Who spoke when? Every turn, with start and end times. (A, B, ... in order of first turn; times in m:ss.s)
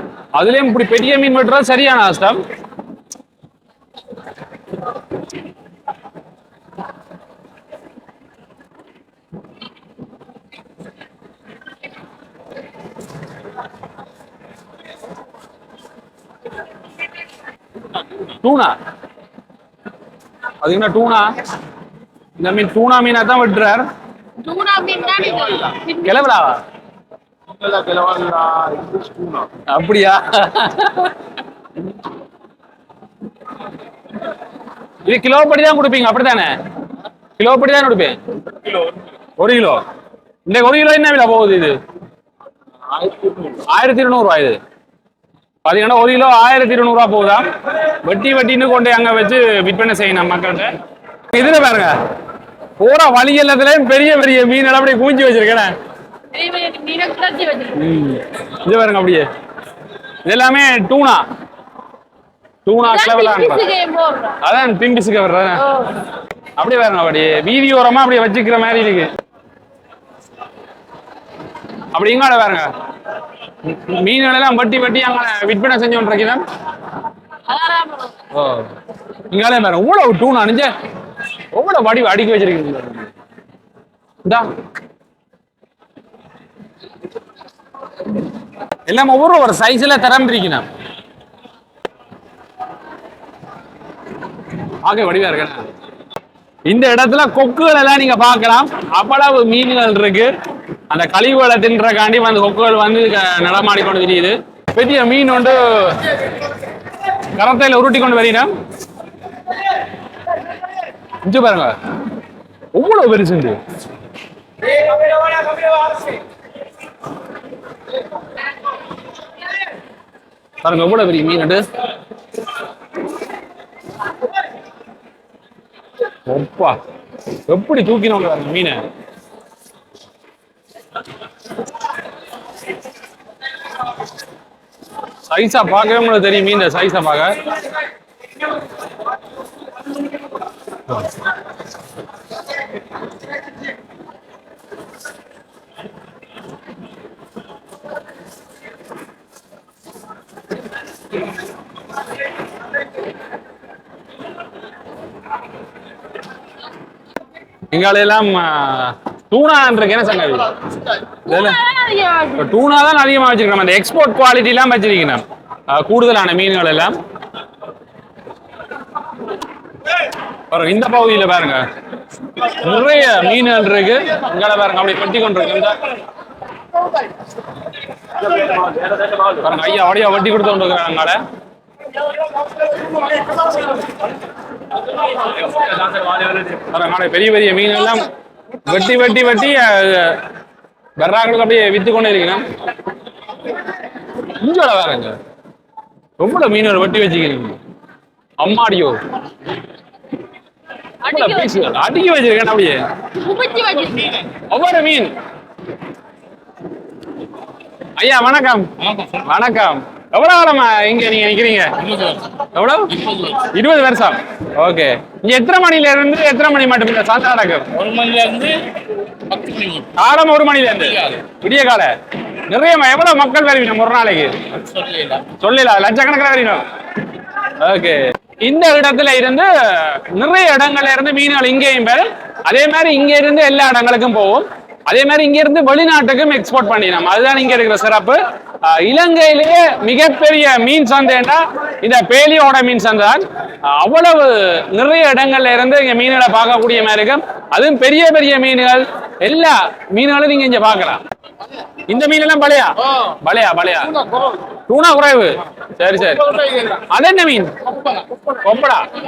0:00.3-0:02.4 A
0:18.4-0:18.8 A
0:20.6-0:21.4 A
0:22.4-0:23.9 A
0:24.4-0:26.2 B
0:26.0-0:26.6 A
0:27.6-0:29.5 C
0:29.7-0:31.1 A
0:35.0-0:36.5 A
0:37.4-0:38.2 A
0:39.4-0:39.8 A
0:40.4-0:41.8 A
0:42.9-0:43.6 C
0:43.6-0:44.6 A
0:45.6-0:47.4 A
0:48.0-0:50.7 A
0:51.3-0:52.0 A
0:52.8-0:55.7 A
0:56.3-0:57.8 B
0:57.7-0:59.3 A
1:00.2-1:01.2 A
1:02.6-1:03.6 A
1:02.8-1:04.4 B
1:04.4-1:05.6 A
1:05.6-1:05.9 B
1:06.6-1:09.1 A
1:11.9-1:12.7 A
1:13.6-1:16.4 A
1:17.5-1:18.1 B
1:18.3-1:18.7 A
1:19.3-1:20.7 A
1:21.5-1:23.1 A
1:28.9-1:30.7 A
1:34.8-1:35.6 A
1:36.7-1:40.3 A
1:40.9-1:46.1 A
1:47.4-1:48.5 A
1:51.2-1:51.7 A
1:52.7-1:53.6 A
2:00.6-2:01.7 A
2:06.3-2:06.8 A
2:07.5-2:08.8 A
2:15.3-2:17.4 A
2:37.7-2:40.5 A
2:41.3-2:42.5 B
2:41.3-2:41.6 A
2:42.4-2:47.0 A
2:50.5-2:51.6 A
2:52.4-2:55.8 A
2:58.2-2:59.4 C
2:59.4-3:01.2 A
3:05.4-3:06.6 C
3:06.7-3:08.1 A
3:08.6-3:10.2 A
3:11.0-3:12.4 A
3:14.4-3:15.2 A
3:16.2-3:17.6 A
3:18.4-3:19.0 A
3:21.0-3:22.9 A
3:21.0-3:21.7 B
3:23.2-3:24.2 B
3:24.5-3:25.1 A
3:28.0-3:31.7 A
3:28.9-3:29.2 C
3:31.9-3:32.2 C
3:32.5-3:37.7 A
3:33.0-3:33.3 C
3:37.7-3:38.6 C
3:39.2-3:39.9 C
3:40.0-3:41.9 A
3:42.5-3:44.4 A
3:44.6-3:45.2 C
3:45.4-3:46.6 A
3:47.6-4:11.0 A
4:11.9-4:14.0 A
4:14.7-4:17.6 A
4:18.3-4:18.9 A